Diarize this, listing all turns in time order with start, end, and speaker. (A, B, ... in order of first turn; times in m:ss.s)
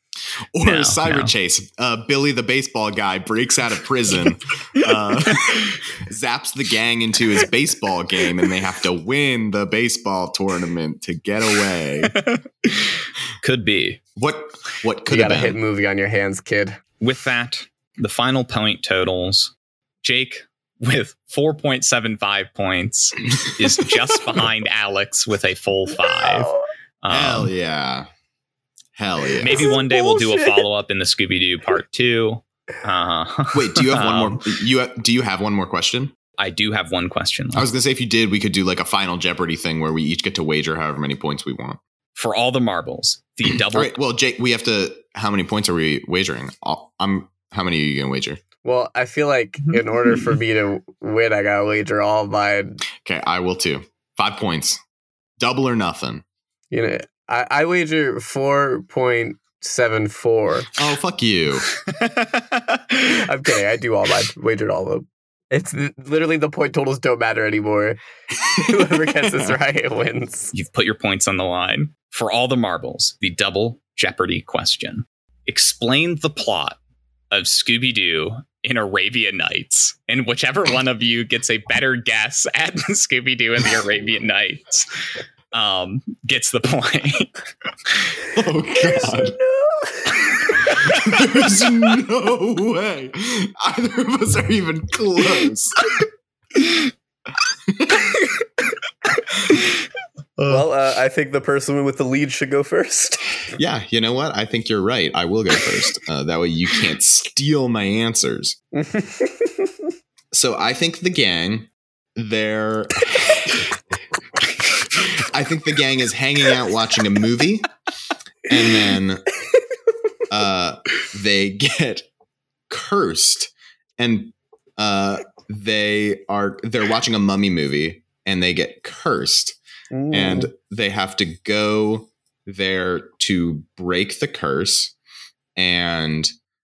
0:00.5-0:12.2 A
0:00.6-0:01.3 B
0:04.8-0:05.8 B
0:12.0-0:14.0 B
0:14.2-0:15.6 A
0:15.1-0:16.8 C
0:17.0-0:27.5 B
0:23.4-0:23.8 A
0:26.1-0:26.6 C
0:27.1-0:28.1 A
0:29.0-0:29.7 A
0:29.4-0:34.4 B
0:29.5-0:30.6 C
0:33.5-0:36.1 A
0:36.4-0:37.7 B
0:37.6-0:41.8 A
0:42.2-0:43.9 B
0:43.5-0:48.4 A
0:48.6-0:52.8 C
0:53.0-0:54.8 A
0:55.4-0:56.2 A
0:56.7-1:00.7 C
1:00.8-1:01.7 A
1:01.7-1:03.3 B
1:03.1-1:08.0 C
1:08.6-1:10.5 C
1:10.5-1:16.8 B
1:17.3-1:25.0 B
1:25.5-1:28.1 B
1:28.3-1:29.4 A
1:28.8-1:31.0 C
1:30.5-1:31.0 B
1:30.9-1:35.8 A
1:37.7-1:38.1 A
1:40.5-1:43.5 C
1:43.6-1:48.6 A
1:48.7-1:49.7 C
1:50.3-1:53.7 A
1:55.0-1:57.7 A
1:58.5-1:59.3 A
2:00.3-2:02.1 A
2:02.7-2:09.6 A
2:09.9-2:10.5 C
2:10.1-2:14.9 A
2:15.6-2:16.3 A